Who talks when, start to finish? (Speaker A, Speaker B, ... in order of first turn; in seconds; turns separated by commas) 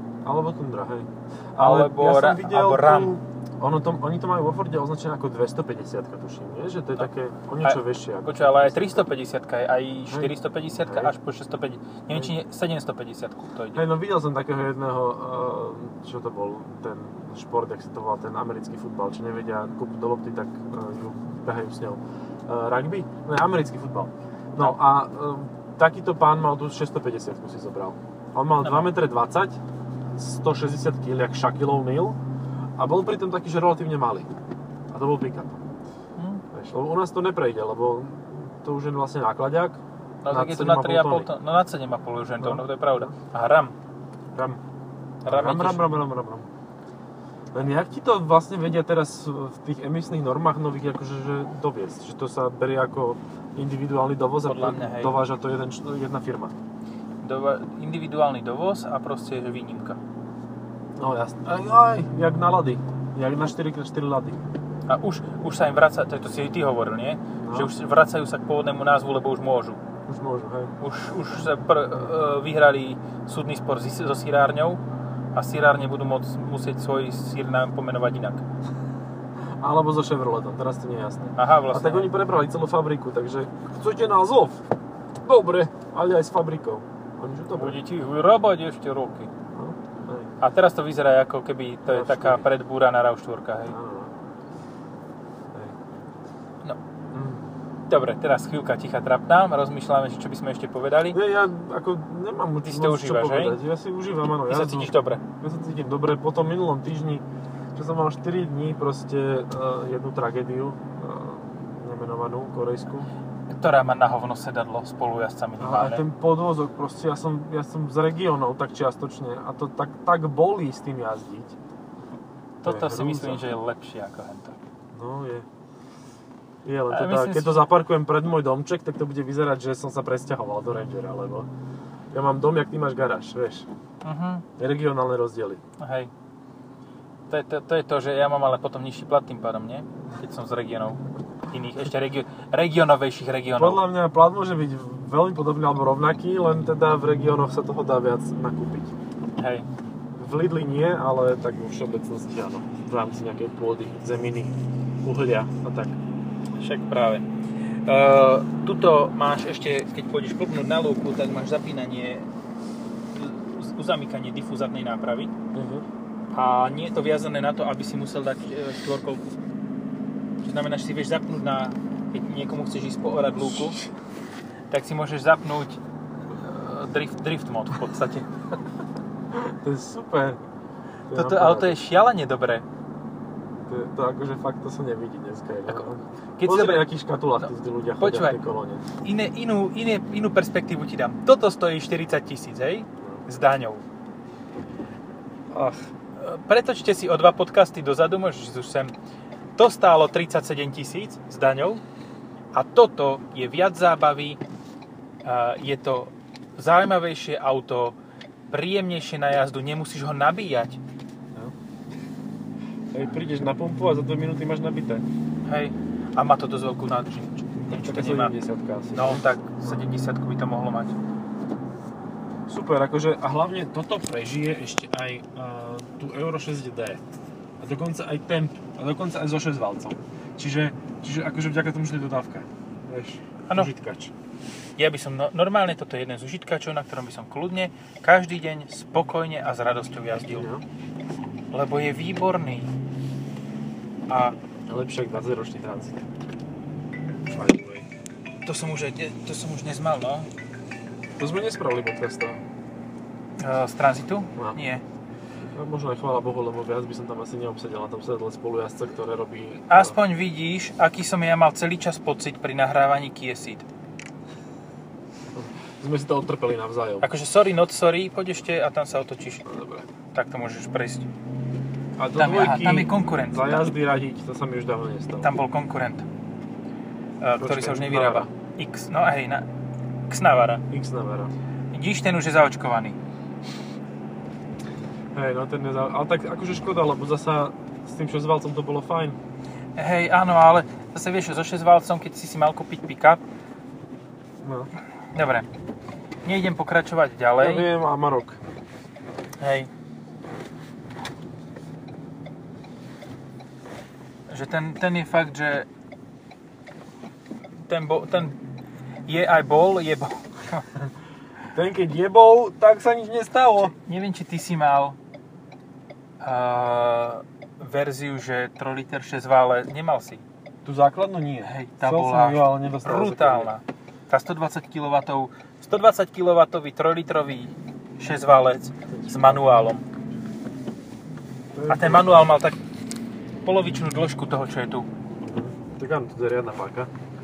Speaker A: 0.2-9.1, Speaker B: 1.6-3.1, Speaker B: 7.6-13.9, Speaker A: 10.1-11.1, Speaker A: 13.7-29.6, Speaker B: 28.6-28.9, Speaker A: 30.1-32.2, Speaker A: 32.8-34.3, Speaker A: 34.9-35.6, Speaker B: 36.2-36.4, Speaker A: 36.5-41.3, Speaker B: 40.2-43.7, Speaker A: 42.4-43.1, Speaker A: 44.3-44.6, Speaker B: 45.2-45.9, Speaker A: 45.2-46.5, Speaker A: 47.5-56.5, Speaker B: 54.5-55.2, Speaker B: 57.2-60.0, Speaker A: 61.0-64.4, Speaker B: 64.9-69.8, Speaker A: 67.4-67.7, Speaker A: 70.1-70.7, Speaker B: 70.8-74.8, Speaker B: 75.3-78.4, Speaker A: 79.6-84.6, Speaker B: 81.3-82.1, Speaker A: 85.2-87.8, Speaker B: 87.5-89.3, Speaker A: 89.5-90.3, Speaker B: 90.4-93.8, Speaker A: 91.9-92.4, Speaker A: 93.7-94.1, Speaker A: 97.1-97.5, Speaker B: 97.9-101.2, Speaker A: 101.1-113.1, Speaker B: 102.6-103.6, Speaker B: 104.5-105.2, Speaker B: 113.5-116.0, Speaker A: 115.6-121.5, Speaker B: 122.6-124.6, Speaker A: 122.6-123.5, Speaker A: 124.9-125.5, Speaker A: 126.6-131.5, Speaker B: 126.9-127.7, Speaker A: 132.1-133.7, Speaker B: 134.0-134.4, Speaker A: 134.6-135.6, Speaker B: 135.8-136.1, Speaker B: 137.3-143.8, Speaker A: 143.6-148.9, Speaker B: 149.4-149.7, Speaker A: 150.1-156.0, Speaker B: 156.6-157.2, Speaker B: 157.9-162.3, Speaker B: 163.1-165.3, Speaker A: 165.5-165.8, Speaker B: 166.3-169.2, Speaker B: 170.4-173.8, Speaker A: 173.5-173.9, Speaker B: 174.7-175.8, Speaker B: 176.3-178.4, Speaker A: 179.3-180.4, Speaker A: 181.1-181.8, Speaker B: 181.1-182.7, Speaker A: 183.6-188.8, Speaker B: 185.7-188.4, Speaker B: 189.0-193.8, Speaker A: 195.5-195.9, Speaker B: 196.2-198.9, Speaker B: 199.6-201.8, Speaker B: 202.5-204.4, Speaker B: 205.2-207.9, Speaker B: 208.5-210.8, Speaker A: 212.9-215.0, Speaker B: 215.4-218.3, Speaker A: 217.6-219.8, Speaker B: 218.9-220.9, Speaker A: 222.5-227.1, Speaker A: 227.6-234.1, Speaker B: 234.8-240.5, Speaker A: 240.3-240.6, Speaker B: 241.5-242.7, Speaker B: 244.1-244.3, Speaker A: 244.7-246.1, Speaker A: 247.2-247.9, Speaker B: 248.4-250.3, Speaker A: 251.2-252.4, Speaker B: 253.4-254.8, Speaker A: 255.5-260.0, Speaker B: 259.7-263.6, Speaker A: 265.3-267.1, Speaker B: 267.0-269.4, Speaker A: 269.4-269.9, Speaker B: 270.1-271.1, Speaker A: 272.0-275.3, Speaker B: 272.1-273.7, Speaker B: 275.2-276.1, Speaker B: 277.2-279.4, Speaker A: 277.4-278.3, Speaker B: 280.1-280.6, Speaker A: 280.7-281.3, Speaker B: 281.7-283.0, Speaker A: 285.1-289.2, Speaker B: 289.8-293.2, Speaker A: 294.4-294.7, Speaker B: 295.1-295.5, Speaker B: 296.2-297.7, Speaker A: 297.4-298.4, Speaker B: 299.4-299.7, Speaker B: 304.3-305.7, Speaker B: 307.6-308.4, Speaker B: 309.1-310.7, Speaker A: 311.5-313.7, Speaker B: 313.6-314.9, Speaker B: 316.2-320.2, Speaker A: 320.6-323.5, Speaker B: 321.4-329.8, Speaker A: 328.9-329.4, Speaker A: 331.5-332.3, Speaker B: 331.7-332.6, Speaker B: 333.4-334.9, Speaker A: 335.2-336.9